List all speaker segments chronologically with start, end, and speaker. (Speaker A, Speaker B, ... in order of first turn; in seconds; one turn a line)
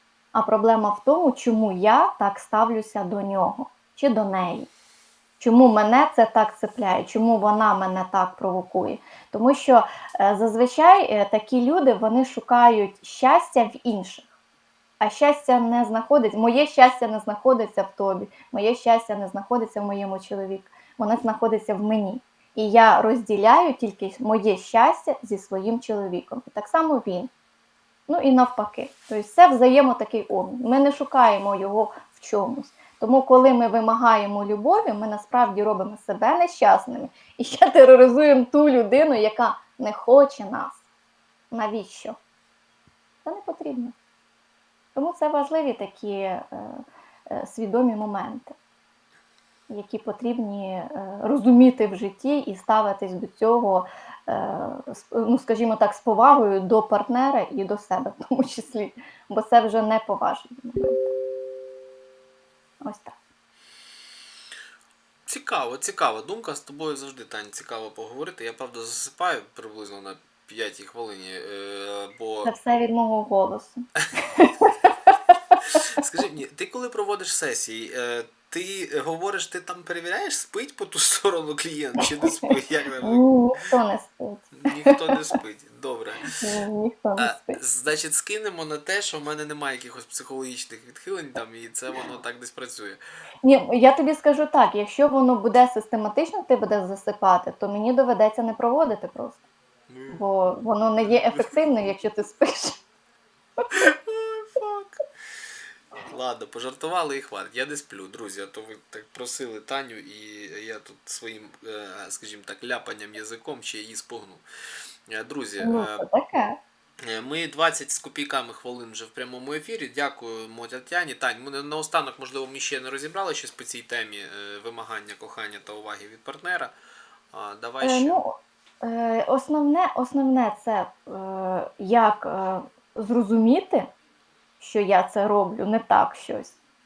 Speaker A: 0.3-4.7
Speaker A: 5.4-14.3
Speaker A: 15.0-27.3
Speaker A: 28.1-40.8
Speaker A: 41.5-42.1
Speaker A: 43.2-43.9
Speaker A: 44.9-48.5
Speaker A: 49.7-61.0
Speaker A: 62.8-63.1
Speaker B: 65.3-72.5
Speaker A: 72.4-75.1
Speaker B: 75.6-83.3
Speaker A: 83.0-85.3
Speaker B: 84.5-86.4
Speaker A: 86.4-87.6
Speaker B: 87.2-93.0
Speaker A: 93.4-99.4
Speaker B: 99.9-100.2
Speaker A: 100.1-102.8
Speaker B: 101.0-101.6
Speaker B: 103.7-104.9
Speaker B: 106.0-114.4
Speaker B: 115.1-116.0
Speaker A: 115.6-116.6
Speaker B: 117.0-126.7
Speaker B: 127.3-128.2
Speaker A: 127.8-133.9
Speaker A: 134.6-136.5